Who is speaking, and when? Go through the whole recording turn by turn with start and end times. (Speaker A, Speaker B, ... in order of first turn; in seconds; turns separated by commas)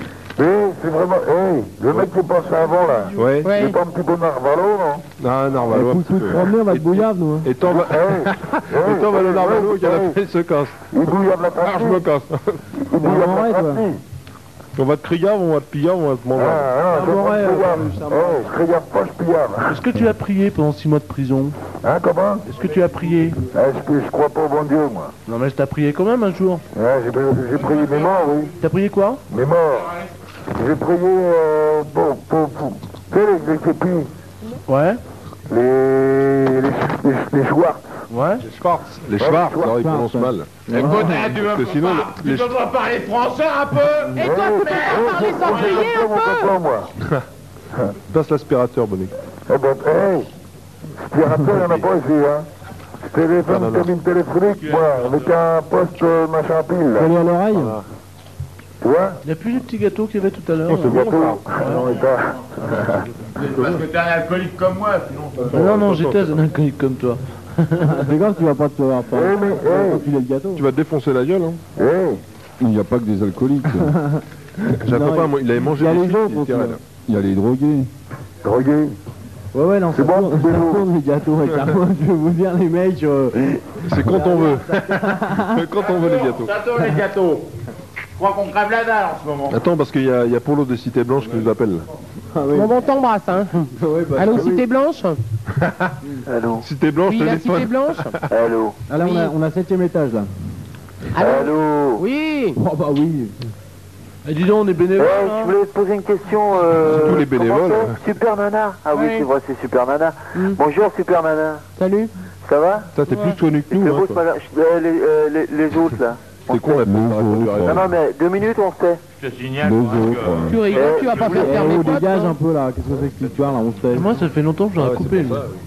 Speaker A: 0.4-5.0, Speaker B: 3.1-3.6, Speaker C: 3.4-3.8, Speaker B: 5.2-10.9, Speaker D: 5.7-7.5, Speaker A: 7.6-10.2, Speaker A: 10.9-12.1, Speaker B: 11.6-12.6, Speaker A: 12.9-14.0, Speaker D: 12.9-13.8, Speaker B: 14.8-16.8, Speaker A: 16.4-19.8, Speaker D: 16.9-18.5, Speaker E: 19.7-21.6, Speaker A: 21.8-22.4, Speaker E: 22.5-23.4, Speaker A: 23.5-25.1, Speaker E: 25.3-26.6, Speaker A: 26.8-28.5, Speaker E: 28.6-29.2, Speaker A: 29.3-30.0, Speaker A: 30.5-34.1, Speaker E: 34.7-35.0, Speaker A: 35.5-37.8, Speaker E: 38.1-38.4, Speaker B: 38.5-42.6, Speaker A: 39.2-39.7, Speaker D: 39.6-41.4, Speaker F: 40.8-45.9, Speaker C: 44.2-46.5, Speaker A: 44.2-46.9, Speaker B: 48.1-49.1, Speaker A: 49.5-50.3, Speaker A: 51.0-52.5, Speaker B: 51.5-51.8, Speaker A: 53.1-57.1, Speaker B: 53.5-53.9, Speaker F: 54.6-55.2, Speaker D: 57.0-57.8, Speaker B: 57.5-57.8, Speaker A: 58.8-59.2, Speaker E: 59.2-62.0, Speaker B: 60.7-61.4, Speaker A: 60.8-63.0, Speaker F: 63.4-65.5, Speaker B: 65.5-66.3, Speaker E: 65.5-68.0, Speaker D: 67.9-70.7, Speaker A: 69.1-70.1, Speaker B: 70.5-71.6, Speaker A: 71.8-72.2, Speaker G: 72.6-73.9, Speaker D: 73.9-76.8, Speaker B: 74.7-76.8, Speaker G: 77.1-77.9, Speaker A: 78.4-79.0, Speaker D: 79.5-85.7, Speaker A: 79.9-80.9, Speaker B: 83.8-86.6, Speaker F: 85.8-87.5, Speaker F: 88.2-89.6, Speaker B: 89.5-91.8, Speaker D: 92.3-92.7, Speaker C: 92.5-95.2, Speaker D: 93.8-94.7, Speaker H: 96.2-96.7, Speaker B: 96.6-98.2, Speaker C: 97.0-98.2, Speaker H: 98.3-98.8, Speaker D: 98.9-100.3, Speaker C: 99.0-99.3, Speaker C: 101.2-102.6, Speaker H: 101.2-102.0, Speaker D: 102.6-103.3, Speaker E: 104.2-105.6, Speaker H: 105.0-111.6, Speaker B: 106.8-108.0, Speaker C: 108.9-109.3, Speaker C: 111.8-112.1, Speaker H: 112.4-112.9, Speaker B: 112.9-114.2, Speaker C: 113.1-113.4, Speaker H: 113.7-116.9, Speaker B: 116.5-117.9, Speaker G: 116.8-117.9, Speaker H: 117.6-119.0, Speaker F: 119.2-121.8, Speaker G: 119.6-120.7, Speaker C: 120.5-122.4, Speaker H: 120.8-121.0, Speaker D: 121.2-124.2, Speaker E: 123.9-125.4, Speaker B: 124.8-125.5